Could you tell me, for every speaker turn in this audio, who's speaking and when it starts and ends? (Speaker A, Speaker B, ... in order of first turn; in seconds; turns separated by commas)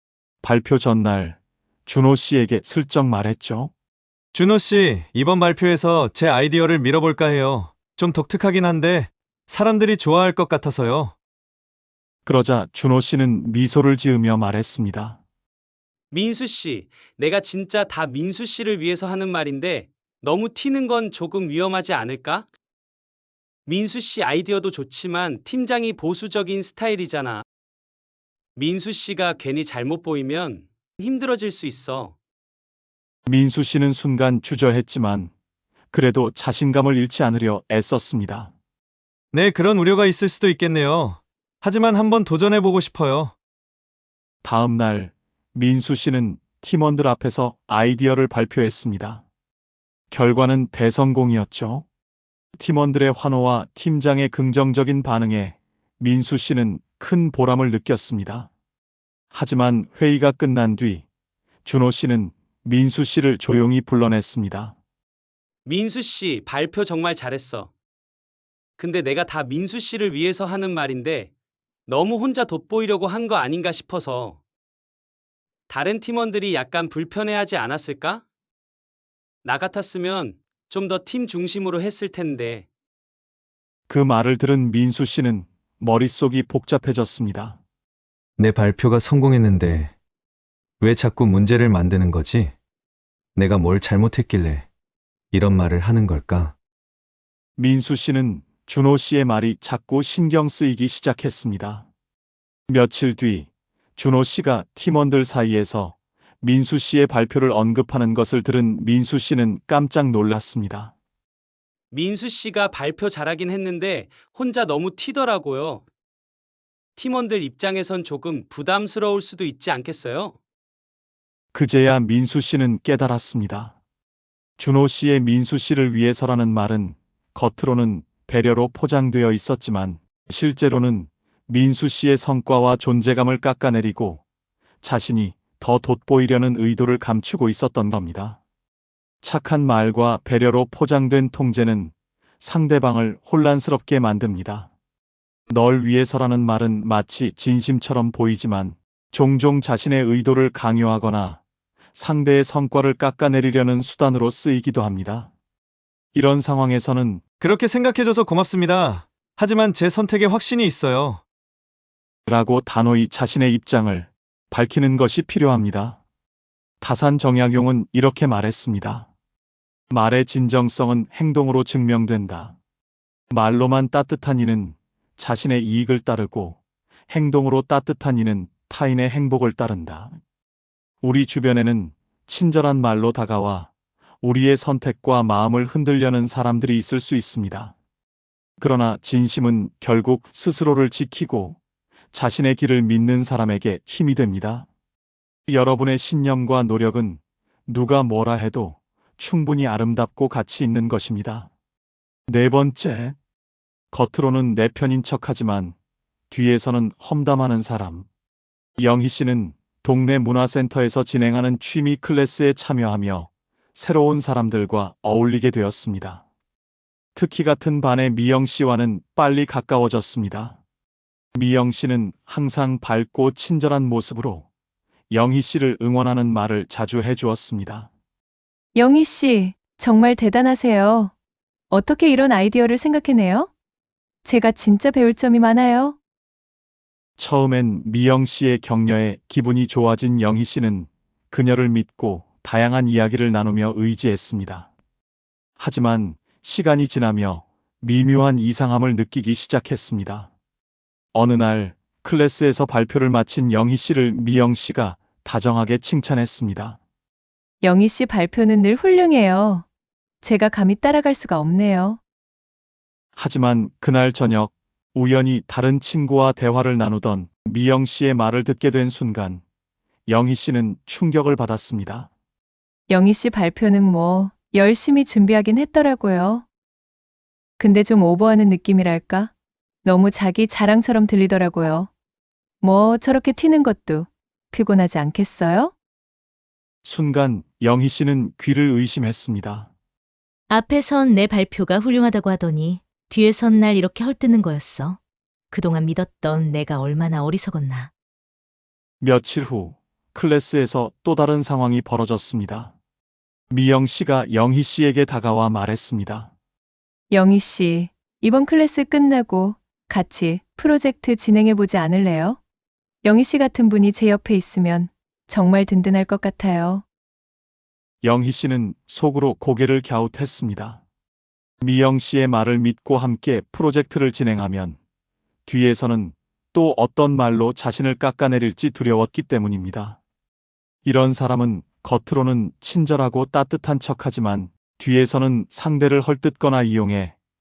Speaker A: 0.4-3.7, Speaker B: 4.3-11.2, Speaker A: 12.2-15.2, Speaker C: 16.1-22.5, Speaker C: 23.7-27.4, Speaker C: 28.6-32.1, Speaker A: 33.3-35.3, Speaker A: 35.9-38.5, Speaker B: 39.3-43.3, Speaker A: 44.4-49.2, Speaker A: 50.1-51.9, Speaker A: 52.5-58.5, Speaker A: 59.3-61.0, Speaker A: 61.6-64.8, Speaker C: 65.7-67.7, Speaker C: 68.8-71.3, Speaker C: 71.9-74.4, Speaker C: 75.7-78.2, Speaker C: 79.4-82.7, Speaker A: 83.9-87.6, Speaker B: 88.4-89.9, Speaker B: 90.8-92.5, Speaker B: 93.3-94.7, Speaker B: 95.3-96.5, Speaker A: 97.6-101.9, Speaker A: 102.7-110.9, Speaker C: 111.9-115.8, Speaker C: 117.0-120.3, Speaker A: 121.5-123.8, Speaker A: 124.6-134.2, Speaker A: 134.8-138.4, Speaker A: 139.2-144.7, Speaker A: 145.5-151.4, Speaker A: 151.9-155.3, Speaker A: 156.1-157.2, Speaker B: 157.4-161.2, Speaker A: 162.2-166.0, Speaker A: 166.8-169.1, Speaker A: 169.9-172.6, Speaker A: 173.3-176.6, Speaker A: 177.1-180.2, Speaker A: 181.0-183.7, Speaker A: 184.2-187.7, Speaker A: 188.6-191.6, Speaker A: 192.1-194.7, Speaker A: 195.5-201.5, Speaker A: 202.3-203.1, Speaker A: 203.9-205.7, Speaker A: 206.3-208.1, Speaker A: 208.8-216.2, Speaker A: 217.1-220.6, Speaker A: 221.3-224.5, Speaker A: 225.1-227.9, Speaker D: 228.8-231.1, Speaker D: 231.7-233.5, Speaker D: 234.2-235.9, Speaker A: 237.2-244.7, Speaker A: 245.6-250.3, Speaker A: 251.1-256.8, Speaker D: 257.6-259.6, Speaker D: 260.2-262.0, Speaker A: 263.1-269.4, Speaker A: 270.1-272.1, Speaker D: 272.9-276.4, Speaker D: 277.6-279.3, Speaker D: 279.8-281.9, Speaker D: 282.6-285.7, Speaker A: 286.8-289.7, Speaker E: 290.5-295.0, Speaker E: 295.5-297.9, Speaker A: 299.0-302.7, Speaker A: 303.5-306.3, Speaker D: 307.1-312.4, Speaker D: 313.0-316.8, Speaker A: 318.0-320.8, Speaker A: 321.6-324.8, Speaker A: 325.4-330.0, Speaker A: 330.8-337.1